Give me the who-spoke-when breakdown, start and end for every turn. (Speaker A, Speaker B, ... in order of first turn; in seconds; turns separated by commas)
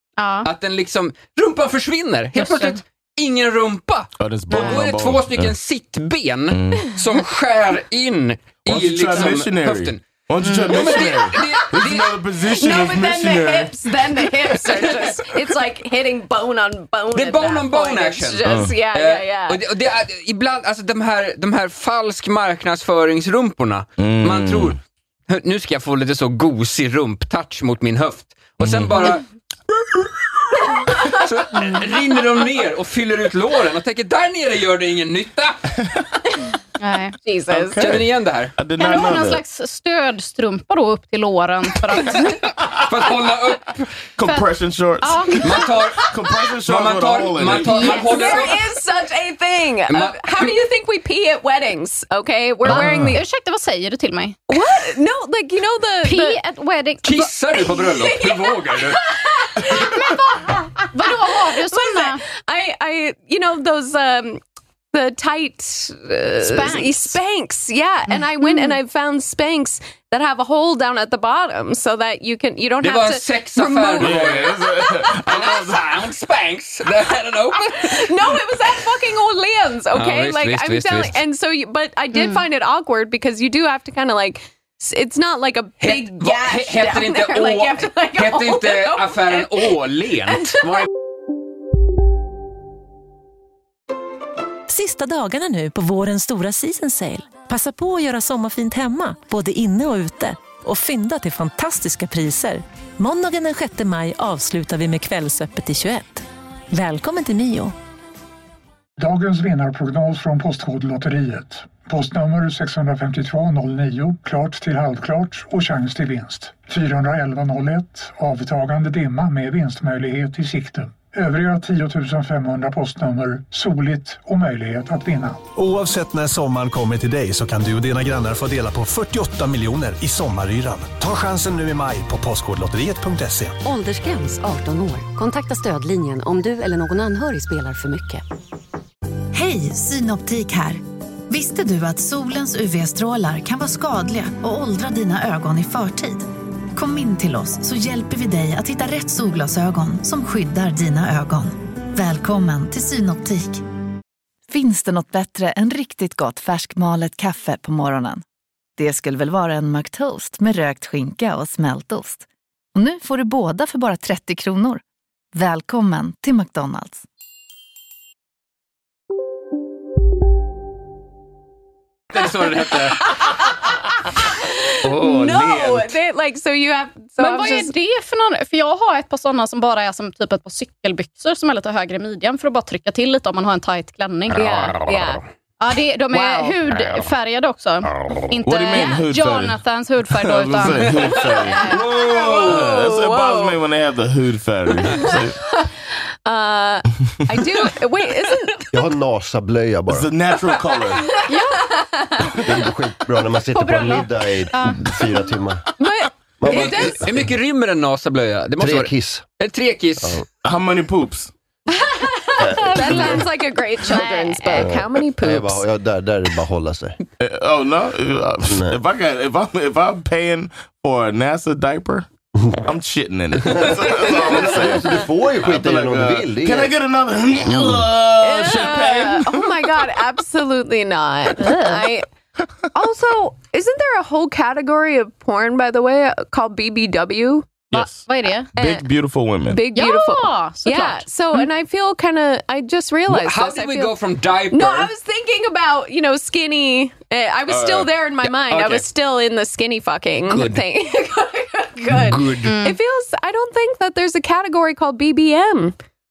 Speaker A: 0.2-0.5, Speaker B: 0.4-10.0, Speaker A: 2.4-2.8, Speaker C: 4.2-5.5, Speaker A: 4.5-4.8, Speaker C: 6.5-6.9, Speaker C: 8.7-13.7, Speaker B: 10.6-12.2, Speaker D: 12.4-19.6, Speaker B: 14.7-15.0, Speaker B: 17.1-24.8, Speaker C: 18.4-18.8, Speaker C: 24.0-24.8, Speaker B: 25.3-29.2, Speaker C: 28.6-29.2, Speaker B: 31.0-35.6, Speaker A: 36.8-37.2, Speaker D: 37.2-37.8, Speaker C: 37.5-39.4, Speaker B: 37.8-38.5, Speaker A: 38.8-42.4, Speaker B: 42.8-43.9, Speaker C: 44.2-48.0, Speaker A: 45.0-45.4, Speaker B: 45.4-46.1, Speaker B: 46.6-48.7, Speaker D: 47.6-53.2, Speaker A: 47.9-48.3, Speaker B: 49.9-50.6, Speaker C: 52.6-53.1, Speaker A: 52.7-54.4, Speaker D: 54.5-56.4, Speaker A: 56.0-57.3, Speaker B: 57.0-59.0, Speaker D: 57.6-64.4, Speaker A: 59.7-60.3, Speaker A: 60.9-62.2, Speaker D: 64.9-74.6, Speaker A: 66.6-66.9, Speaker A: 68.1-68.8, Speaker B: 72.8-78.1, Speaker C: 74.0-76.0, Speaker D: 77.7-90.8, Speaker B: 79.9-81.2, Speaker A: 82.1-82.4, Speaker B: 85.8-90.9, Speaker E: 94.7-107.7, Speaker F: 109.0-125.5, Speaker G: 125.6-133.6, Speaker H: 133.6-138.2, Speaker I: 139.3-153.6, Speaker J: 154.5-158.2, Speaker J: 158.8-164.8, Speaker J: 165.3-167.0, Speaker B: 172.1-173.2, Speaker D: 172.9-173.5, Speaker D: 174.1-177.7, Speaker B: 174.8-175.9, Speaker A: 177.2-184.7, Speaker D: 184.3-185.2, Speaker A: 185.6-191.8, Speaker D: 186.1-186.6, Speaker C: 188.4-189.6, Speaker C: 190.1-195.4, Speaker D: 191.2-193.6, Speaker D: 194.8-195.7, Speaker D: 196.2-198.7, Speaker K: 198.7-200.1, Speaker C: 199.9-201.1, Speaker D: 201.1-202.3, Speaker A: 201.3-201.6, Speaker K: 202.4-205.6, Speaker A: 203.5-204.9, Speaker D: 205.8-207.1, Speaker K: 206.4-207.1, Speaker B: 206.5-210.2, Speaker K: 208.6-209.2, Speaker C: 210.4-211.3, Speaker D: 211.8-215.6, Speaker K: 212.4-213.2, Speaker A: 212.5-213.2, Speaker A: 213.9-214.7, Speaker K: 214.5-217.0, Speaker C: 217.2-222.1, Speaker K: 218.5-218.8, Speaker C: 222.7-229.7, Speaker K: 223.4-226.7, Speaker K: 227.5-227.8, Speaker D: 228.2-232.1, Speaker A: 231.4-231.8, Speaker D: 232.7-237.6, Speaker C: 237.7-238.0, Speaker A: 237.7-238.5, Speaker C: 238.6-239.6, Speaker D: 238.6-238.9, Speaker D: 239.5-243.9, Speaker A: 239.8-241.5, Speaker B: 243.1-244.9, Speaker D: 244.5-255.8, Speaker C: 247.5-247.9, Speaker B: 248.2-248.9, Speaker B: 250.3-250.6, Speaker B: 251.9-252.4, Speaker A: 252.4-252.8